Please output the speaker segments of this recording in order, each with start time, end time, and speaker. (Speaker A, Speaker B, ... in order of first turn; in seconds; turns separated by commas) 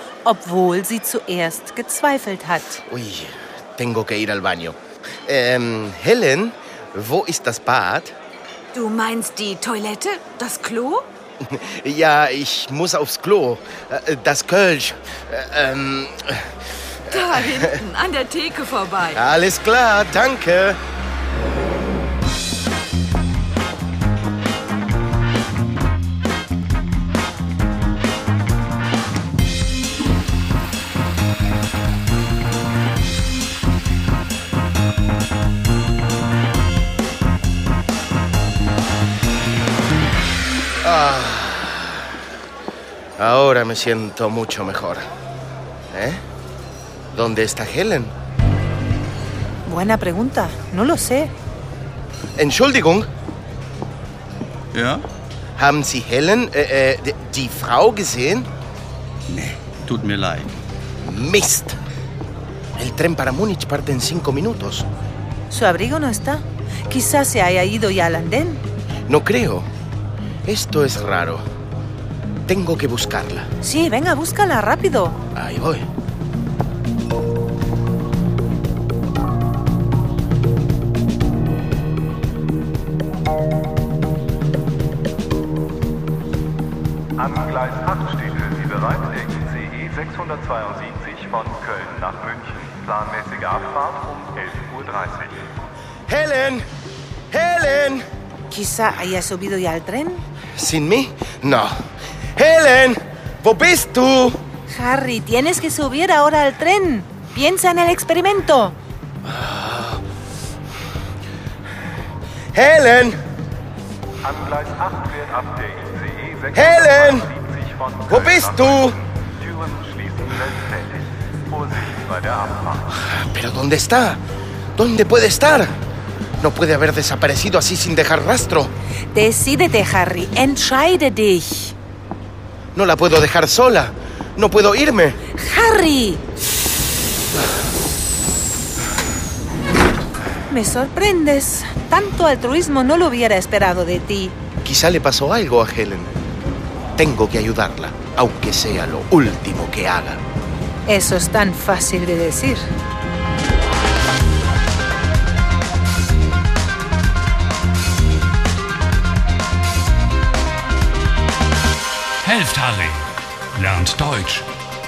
Speaker A: 0.2-2.8, Speaker B: 2.9-8.1, Speaker C: 8.7-11.1, Speaker B: 11.4-16.5, Speaker C: 17.1-19.2, Speaker B: 17.1-17.7, Speaker B: 19.1-20.8, Speaker B: 40.8-42.1, Speaker B: 43.2-45.0, Speaker B: 45.9-46.2, Speaker B: 47.1-48.1, Speaker A: 49.6-51.3, Speaker B: 52.4-53.1, Speaker D: 54.7-55.0, Speaker B: 55.6-58.5, Speaker D: 59.3-60.6, Speaker B: 61.0-61.8, Speaker B: 62.8-64.9, Speaker A: 65.5-68.6, Speaker B: 69.1-69.7, Speaker B: 70.5-71.5, Speaker B: 72.5-73.5, Speaker A: 73.6-75.2, Speaker B: 75.3-75.9, Speaker D: 87.2-95.4, Speaker B: 96.1-96.7, Speaker B: 97.3-98.0, Speaker A: 98.5-100.2, Speaker B: 100.5-101.8, Speaker B: 102.4-104.4, Speaker A: 104.7-108.8, Speaker B: 109.2-110.0, Speaker B: 112.5-113.2, Speaker D: 114.3-116.5, Speaker B: 116.5-117.4, Speaker D: 117.7-118.0, Speaker B: 118.0-119.0, Speaker D: 119.5-121.0, Speaker D: 121.5-122.8, Speaker B: 122.9-124.2, Speaker B: 124.8-125.8, Speaker B: 126.4-128.7, Speaker A: 129.1-131.8, Speaker B: 132.8-135.2, Speaker A: 135.3-136.2, Speaker A: 140.5-144.4, Speaker B: 144.6-146.1, Speaker B: 147.0-150.2, Speaker A: 150.9-152.7, Speaker E: 162.2-164.5